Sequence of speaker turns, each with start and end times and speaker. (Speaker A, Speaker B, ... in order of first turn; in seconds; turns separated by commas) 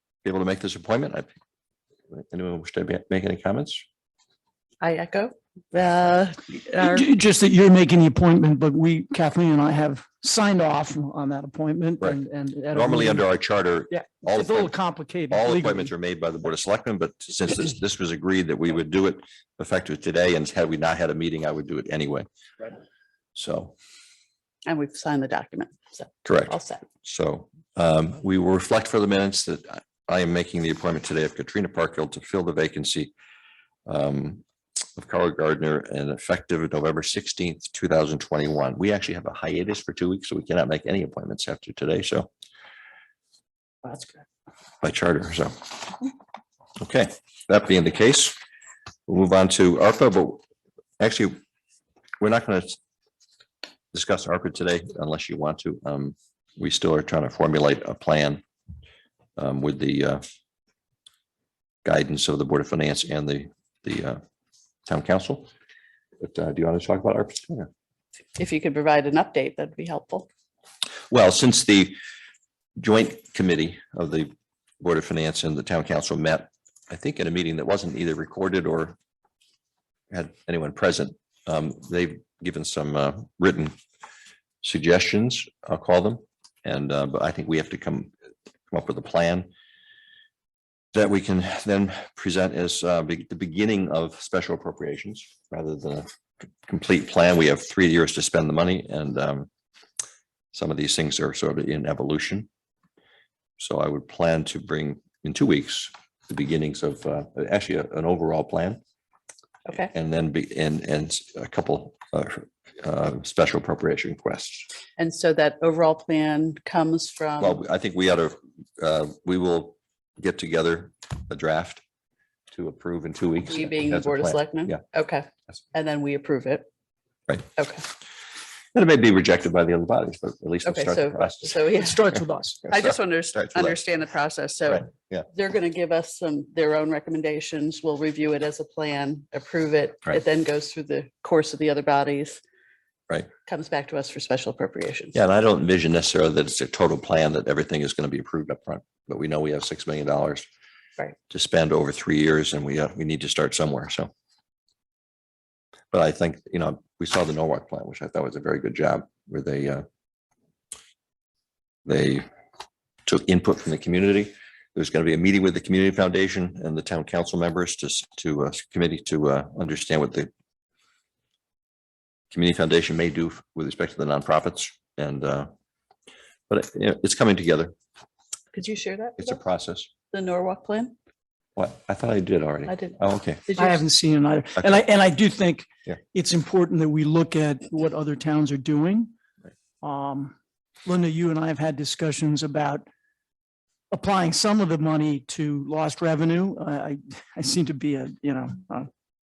Speaker A: 0.2-1.3, Speaker A: 2.1-3.9, Speaker B: 4.8-7.1, Speaker C: 6.8-13.3, Speaker A: 12.7-14.7, Speaker C: 13.9-15.9, Speaker A: 15.3-22.3, Speaker A: 23.4-23.7, Speaker B: 24.7-26.8, Speaker A: 26.2-33.1, Speaker A: 33.9-34.4, Speaker A: 35.0-42.3, Speaker C: 43.9-44.1, Speaker A: 44.8-46.0, Speaker A: 46.8-48.4, Speaker A: 49.1-50.4, Speaker A: 51.0-51.4, Speaker A: 52.2-52.8, Speaker A: 53.9-58.4, Speaker A: 59.4-60.2, Speaker A: 61.8-64.2, Speaker A: 64.9-65.5, Speaker A: 66.2-67.7, Speaker B: 68.4-70.3, Speaker A: 71.1-72.0, Speaker A: 72.8-79.0, Speaker A: 80.1-83.8, Speaker A: 84.6-88.1, Speaker A: 88.7-89.5, Speaker A: 90.9-96.1, Speaker A: 96.7-99.5, Speaker A: 100.5-102.5, Speaker A: 103.6-108.8, Speaker B: 109.7-109.9, Speaker A: 109.9-114.7, Speaker B: 115.0-117.6, Speaker A: 117.4-121.8, Speaker A: 122.5-124.8, Speaker B: 123.5-126.7, Speaker B: 127.6-127.8, Speaker A: 128.7-131.6, Speaker B: 130.7-132.0, Speaker C: 131.8-132.6, Speaker A: 132.1-133.8, Speaker B: 132.7-142.4, Speaker A: 134.7-135.3, Speaker B: 143.5-145.2, Speaker A: 145.1-150.5, Speaker A: 151.3-154.1, Speaker A: 155.9-159.9, Speaker A: 161.9-162.3, Speaker A: 163.1-170.3, Speaker A: 172.3-175.5, Speaker A: 176.5-177.7, Speaker B: 178.5-179.4, Speaker A: 179.2-179.9, Speaker B: 180.1-180.9, Speaker A: 181.6-183.4, Speaker B: 182.7-183.8, Speaker C: 183.6-189.1, Speaker C: 189.8-192.8, Speaker C: 193.9-198.9